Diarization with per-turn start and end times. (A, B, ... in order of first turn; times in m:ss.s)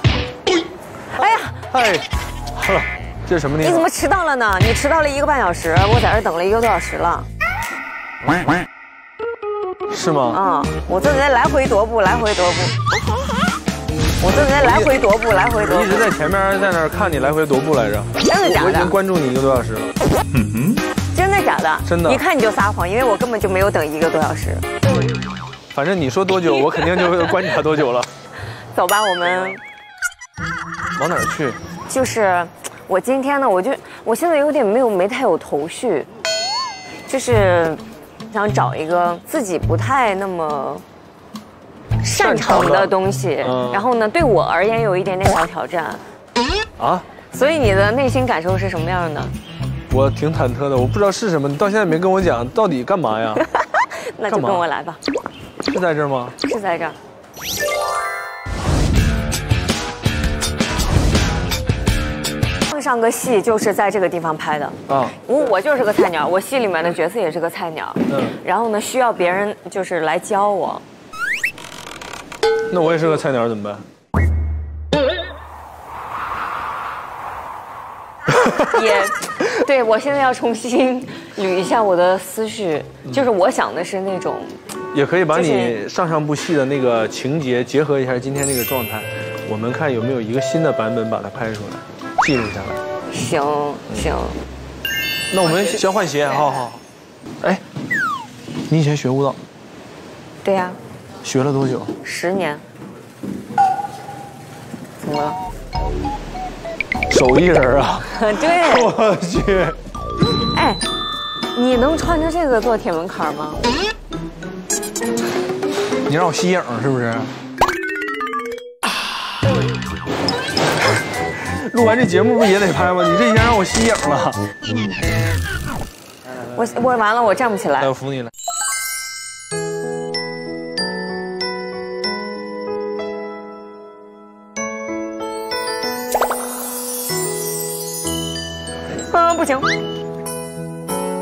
0:01.1-0:01.6 A
0:01.7-0:03.9 B
0:03.6-0:07.3 A
0:09.9-0:10.4 B
0:10.3-0:12.8 A
0:14.2-0:16.0 A
0:14.5-0:14.9 B
0:15.6-0:19.9 B
0:18.2-0:18.9 A
0:21.1-0:24.6 A
0:21.8-0:22.2 B
0:25.7-0:28.1 B
0:28.5-0:29.6 A
0:31.0-0:31.6 B
0:31.9-0:36.1 A
0:37.1-0:40.8 A
0:42.0-0:46.0 A
0:42.2-0:43.9 B
0:46.8-0:47.0 B
0:47.3-0:49.3 A
0:49.9-0:53.4 B
0:53.5-0:55.0 A
0:54.3-0:54.6 B
0:55.7-0:56.4 B
0:56.4-0:57.0 A
1:02.7-1:10.8 A
1:04.9-1:05.2 B
1:08.1-1:08.4 B
1:12.7-1:13.8 B
1:18.5-1:24.6 A
1:24.9-1:32.8 B
1:25.3-1:25.8 A
1:33.1-1:34.4 A
1:35.3-1:36.8 B
1:38.7-1:39.4 B
1:40.4-1:40.8 A
1:41.2-1:41.9 B
1:42.0-1:42.6 A
1:45.0-1:45.4 A
1:47.1-1:49.8 B
1:48.0-1:48.9 A
1:50.4-1:50.8 A
1:51.5-1:53.6 A
1:56.0-1:57.3 B
2:01.3-2:04.4 B
2:06.4-2:07.9 A
2:07.8-2:08.3 B
2:19.0-2:19.7 A